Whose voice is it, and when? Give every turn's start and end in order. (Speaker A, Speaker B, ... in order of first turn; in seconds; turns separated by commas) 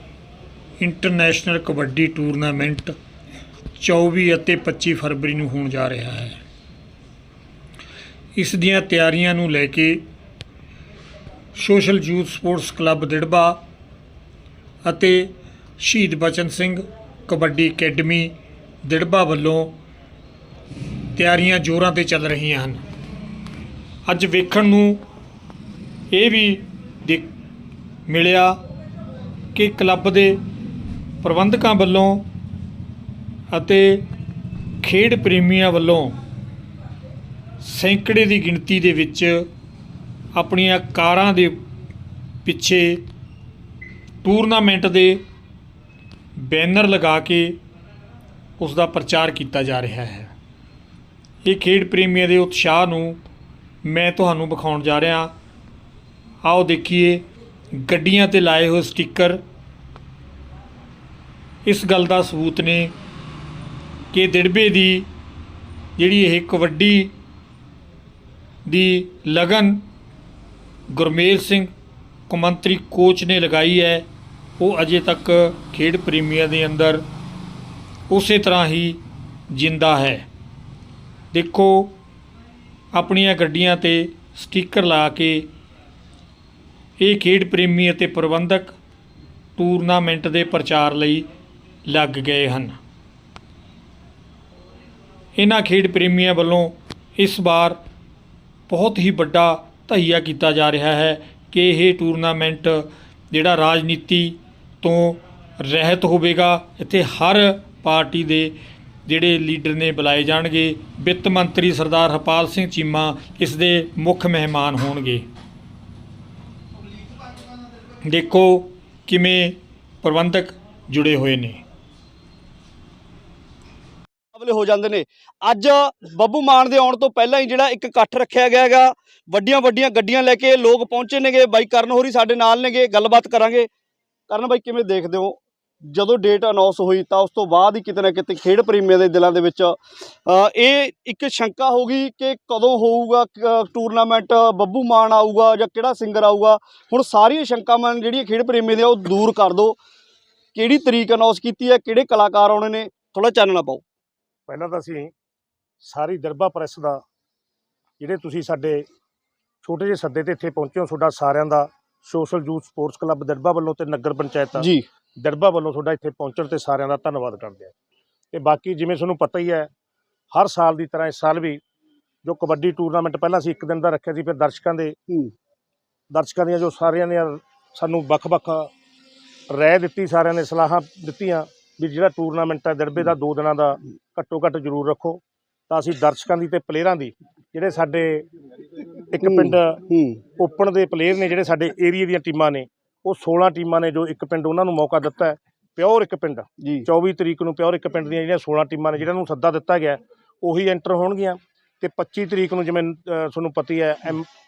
Speaker A: 0.8-2.9, Speaker A: 3.8-6.4, Speaker A: 8.3-10.0, Speaker A: 11.6-13.6, Speaker A: 14.8-19.8, Speaker A: 21.2-22.8, Speaker A: 24.1-25.0, Speaker A: 26.1-27.3, Speaker A: 28.1-28.6, Speaker A: 29.6-30.4, Speaker A: 31.2-32.2, Speaker A: 33.5-34.0, Speaker A: 34.8-36.1, Speaker A: 37.6-39.5, Speaker A: 40.3-41.6, Speaker A: 42.5-43.0, Speaker A: 44.2-45.2, Speaker A: 46.4-47.6, Speaker A: 48.6-50.3, Speaker A: 51.4-53.2, Speaker A: 53.8-55.3, Speaker A: 56.4-59.4, Speaker A: 61.6-62.9, Speaker A: 64.1-65.1, Speaker A: 66.0-67.1, Speaker A: 68.7-69.8, Speaker A: 70.9-71.7, Speaker A: 72.3-74.1, Speaker A: 74.6-77.0, Speaker A: 78.1-80.2, Speaker A: 81.3-82.0, Speaker A: 82.9-85.5, Speaker A: 87.0-88.8, Speaker A: 89.6-91.2, Speaker A: 91.9-92.8, Speaker A: 95.3-97.8, Speaker A: 98.7-108.5, Speaker A: 109.1-115.2, Speaker A: 118.1-121.6, Speaker B: 124.3-133.7, Speaker B: 134.3-149.8, Speaker B: 150.6-153.8, Speaker C: 154.5-155.1, Speaker C: 155.8-157.0, Speaker C: 158.0-158.8, Speaker C: 159.6-164.7, Speaker B: 164.6-164.8, Speaker C: 165.2-167.7, Speaker C: 168.3-169.7, Speaker C: 170.3-171.6, Speaker C: 172.2-175.0, Speaker C: 176.1-178.7, Speaker C: 179.5-188.3, Speaker C: 189.1-189.8, Speaker B: 189.2-190.2, Speaker C: 190.4-204.3, Speaker B: 196.6-196.9